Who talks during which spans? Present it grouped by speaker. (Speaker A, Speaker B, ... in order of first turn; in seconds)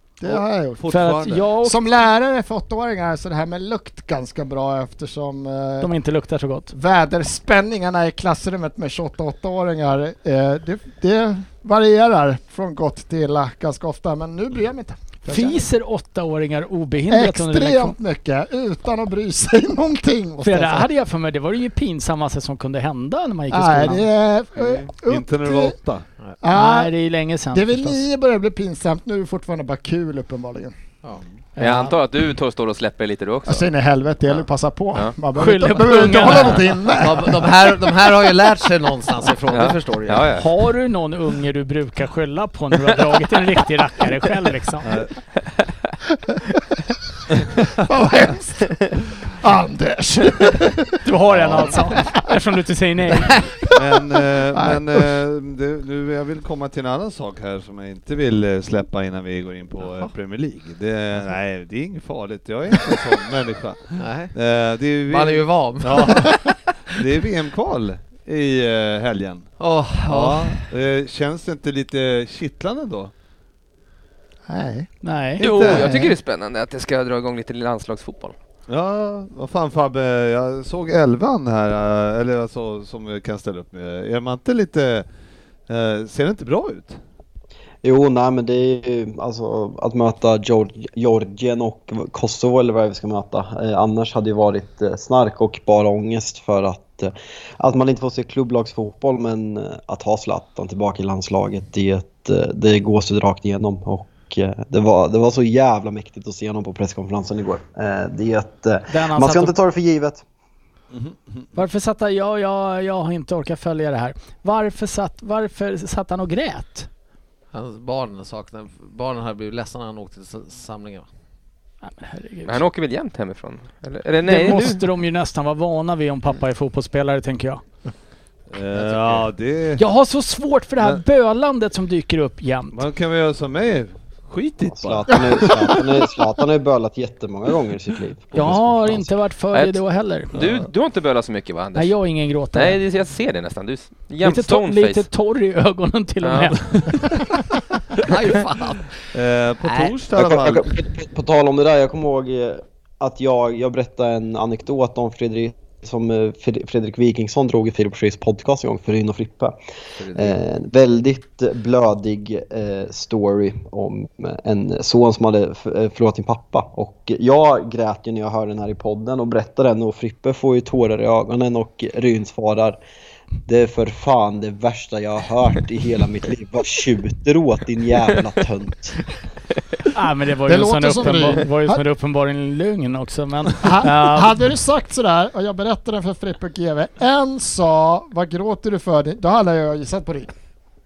Speaker A: 0.2-0.8, 1.6-5.9, 6.7-15.7, 17.1-20.9, 23.5-25.8, 26.4-26.9, 27.5-30.8, 33.5-37.5, 47.8-51.0, 54.1-54.8, 74.5-74.9, 180.5-181.8, 183.6-190.3
Speaker B: 0.2-1.5, 24.6-26.1, 44.8-45.1, 51.3-51.8, 53.7-66.3, 66.9-69.5, 70.1-73.1, 75.4-76.0, 78.7-85.1, 85.7-87.0, 110.9-111.7, 128.5-129.8, 132.7-135.6, 140.3-140.7, 149.1-150.7
Speaker C: 0.9-1.8, 5.8-6.7, 15.3-18.0, 20.4-24.1, 26.5-28.0, 31.6-32.0, 35.4-36.7, 40.4-44.9, 51.0-53.5, 75.0-75.4, 108.9-109.5, 111.6-116.9, 121.8-122.6, 124.2-127.6, 129.8-132.8, 138.3-140.4, 141.8-142.8, 144.2-147.2, 179.9-184.3
Speaker D: 31.6-33.7, 39.5-40.5, 75.4-78.4, 122.5-124.8, 139.5-142.0, 142.5-145.1, 146.2-146.6
Speaker E: 37.0-40.3, 64.0-64.3, 65.1-66.6, 69.6-70.7, 117.5-121.1, 128.7-129.3, 148.0-148.9, 149.6-149.9, 160.0-160.4
Speaker F: 87.8-110.2, 134.7-139.1, 150.2-159.6, 160.1-172.8, 173.5-179.0